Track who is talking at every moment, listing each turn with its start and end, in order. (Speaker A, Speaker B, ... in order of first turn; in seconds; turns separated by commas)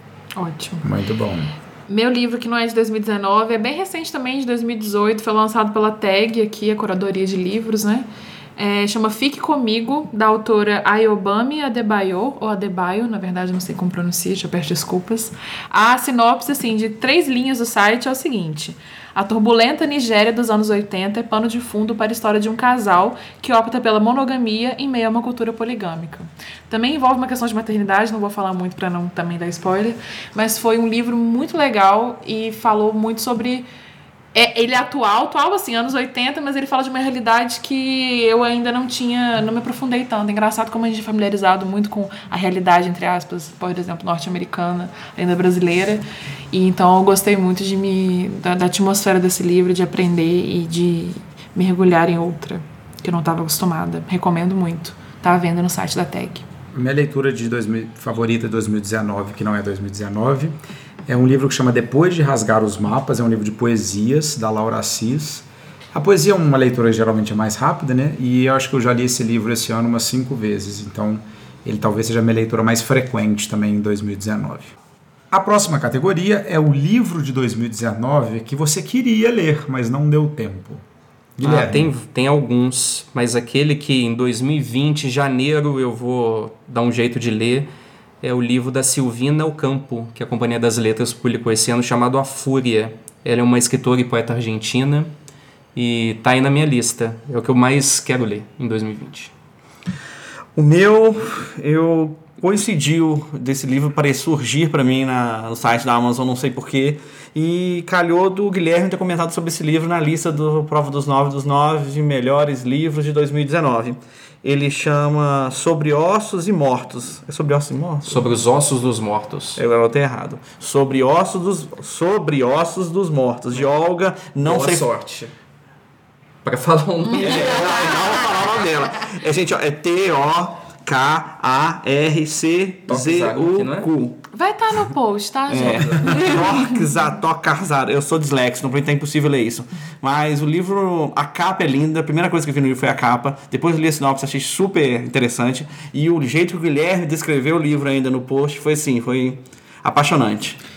Speaker A: 0.3-0.9, Speaker B: 0.8-1.5, Speaker A: 1.9-33.7, Speaker A: 34.3-56.5, Speaker B: 56.7-60.5, Speaker B: 61.1-74.7, Speaker B: 75.3-80.8, Speaker B: 81.4-81.9, Speaker C: 81.4-87.7, Speaker C: 88.2-95.1, Speaker C: 95.7-99.3, Speaker D: 100.5-118.2, Speaker C: 118.0-119.6, Speaker D: 119.6-124.8, Speaker C: 124.4-125.3, Speaker C: 126.4-128.0, Speaker D: 127.1-134.2, Speaker C: 132.9-133.9, Speaker A: 134.3-136.8, Speaker D: 135.5-150.6, Speaker C: 135.6-136.3